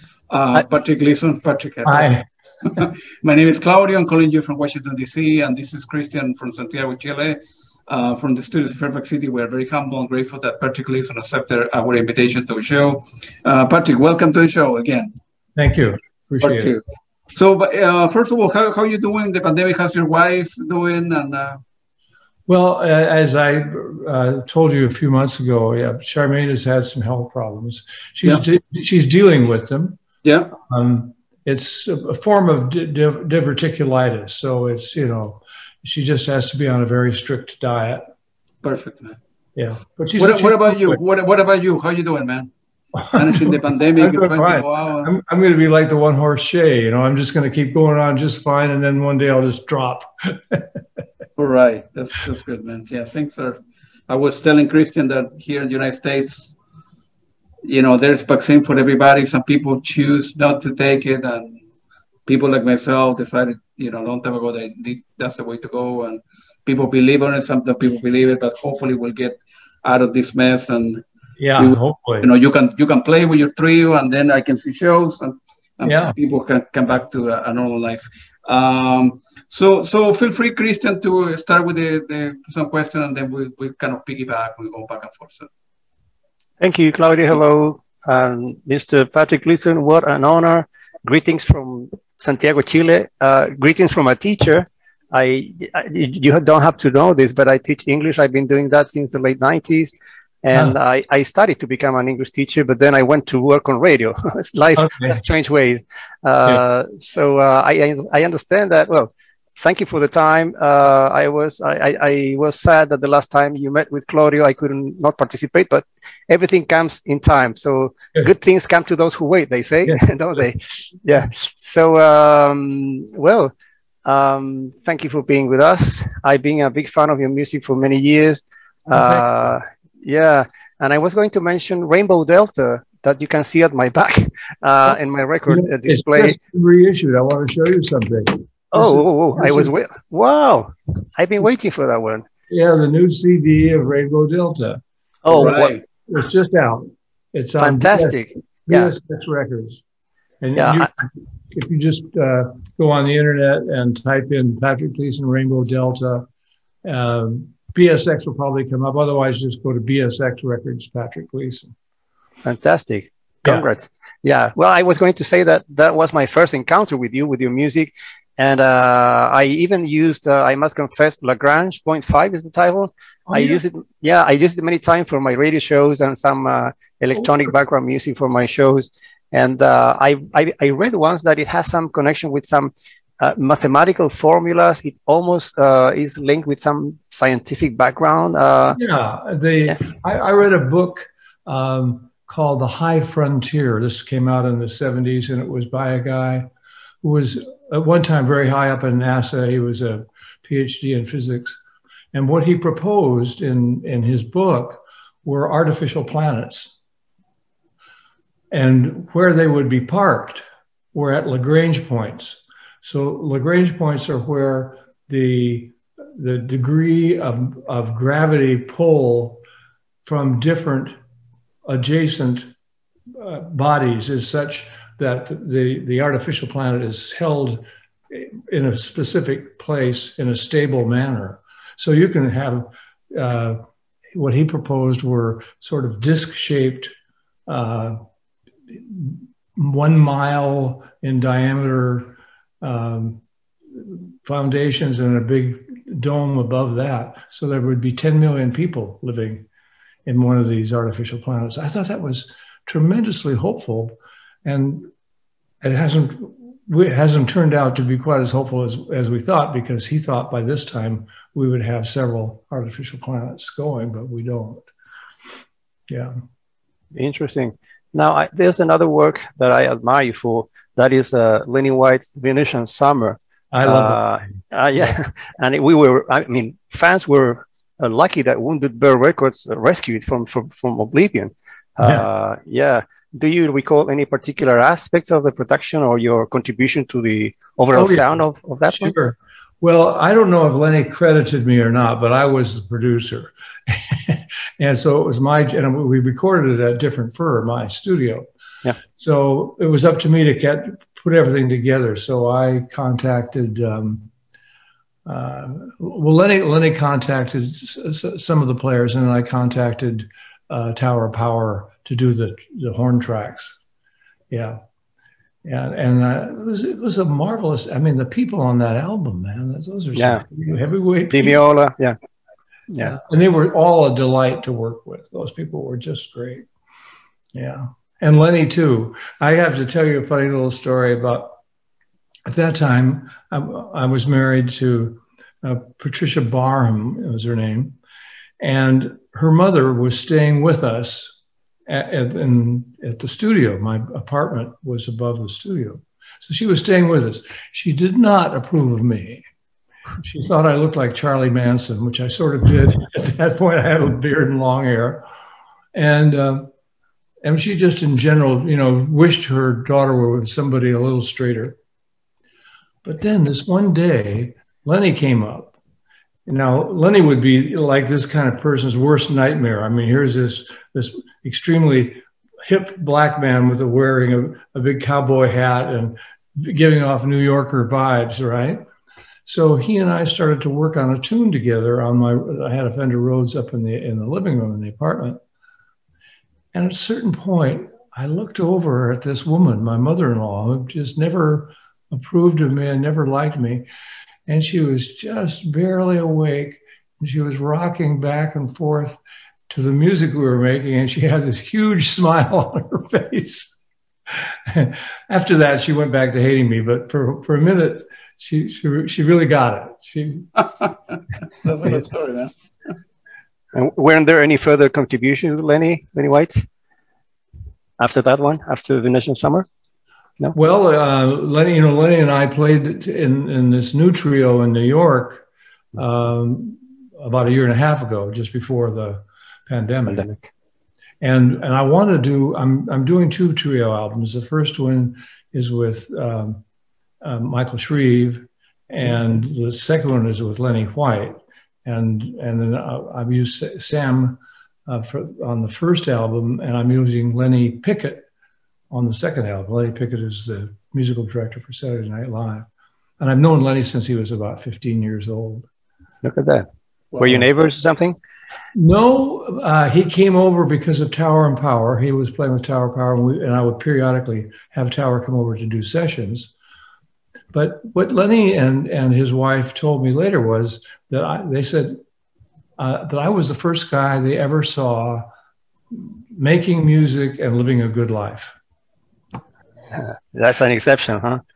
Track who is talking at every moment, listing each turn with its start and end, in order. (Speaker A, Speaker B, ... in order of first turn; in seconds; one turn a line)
Speaker A: 0.3-15.1
Speaker B: 1.9-2.3
Speaker B: 15.6-16.8
Speaker A: 16.4-21.6
Speaker B: 22.5-30.0
Speaker A: 30.2-30.5
Speaker B: 30.6-38.1
Speaker A: 38.6-39.2
Speaker B: 39.6-41.0
Speaker A: 40.2-42.5
Speaker B: 43.0-51.0
Speaker A: 43.1-45.1
Speaker A: 51.4-56.5
Speaker A: 57.6-61.6
Speaker A: 62.3-71.0
Speaker B: 71.4-72.3
Speaker A: 71.6-85.5
Speaker B: 75.8-76.2
Speaker C: 86.6-123.5
Speaker B: 104.8-105.2
Speaker C: 124.1-136.4
Speaker B: 128.9-129.3
Speaker B: 135.5-139.7
Speaker C: 138.7-142.3
Speaker B: 142.5-149.8
Speaker C: 145.2-145.8
Speaker A: 145.3-145.8
Speaker C: 147.6-148.9
Speaker B: 150.4-156.3
Speaker C: 150.6-150.9
Speaker B: 156.8-161.7
Speaker C: 162.4-188.8
Speaker B: 173.3-173.6
Speaker B: 188.8-196.5
Speaker B: 197.0-201.6
Speaker B: 202.1-206.8
Speaker B: 208.5-219.4
Speaker B: 220.1-220.9
Speaker B: 221.7-222.5
Speaker B: 223.2-233.6
Speaker B: 234.1-236.9
Speaker B: 237.5-238.0
Speaker B: 238.7-243.2
Speaker B: 243.7-249.4
Speaker B: 250.1-254.9
Speaker B: 255.6-264.7
Speaker B: 265.9-266.2
Speaker C: 266.9-288.9
Speaker B: 273.5-274.9
Speaker B: 281.8-282.1
Speaker B: 287.8-298.3
Speaker B: 299.0-304.1
Speaker B: 305.1-313.6
Speaker B: 314.3-314.6
Speaker B: 315.4-321.4
Speaker C: 319.9-320.2
Speaker C: 321.1-322.0
Speaker C: 322.7-323.0
Speaker B: 322.8-326.5
Speaker B: 327.3-331.4
Speaker B: 332.3-337.8
Speaker B: 338.4-341.2
Speaker B: 341.7-349.2
Speaker B: 350.0-355.1
Speaker B: 355.8-356.5
Speaker B: 357.2-361.6
Speaker B: 362.8-365.6
Speaker B: 366.3-378.6
Speaker B: 379.3-385.2
Speaker B: 386.5-393.7
Speaker B: 394.3-399.0
Speaker B: 399.5-403.5
Speaker B: 404.1-410.3
Speaker A: 411.4-412.3
Speaker C: 413.5-416.5
Speaker C: 417.8-419.5
Speaker B: 420.3-425.2
Speaker B: 425.8-430.1
Speaker C: 429.9-430.2
Speaker B: 431.0-436.4
Speaker B: 437.0-448.1
Speaker B: 448.7-452.5
Speaker B: 453.0-455.5
Speaker C: 456.0-456.5
Speaker C: 457.0-458.0
Speaker B: 458.5-466.3
Speaker B: 467.3-471.8
Speaker B: 472.6-475.1
Speaker B: 475.7-478.4
Speaker C: 479.7-481.2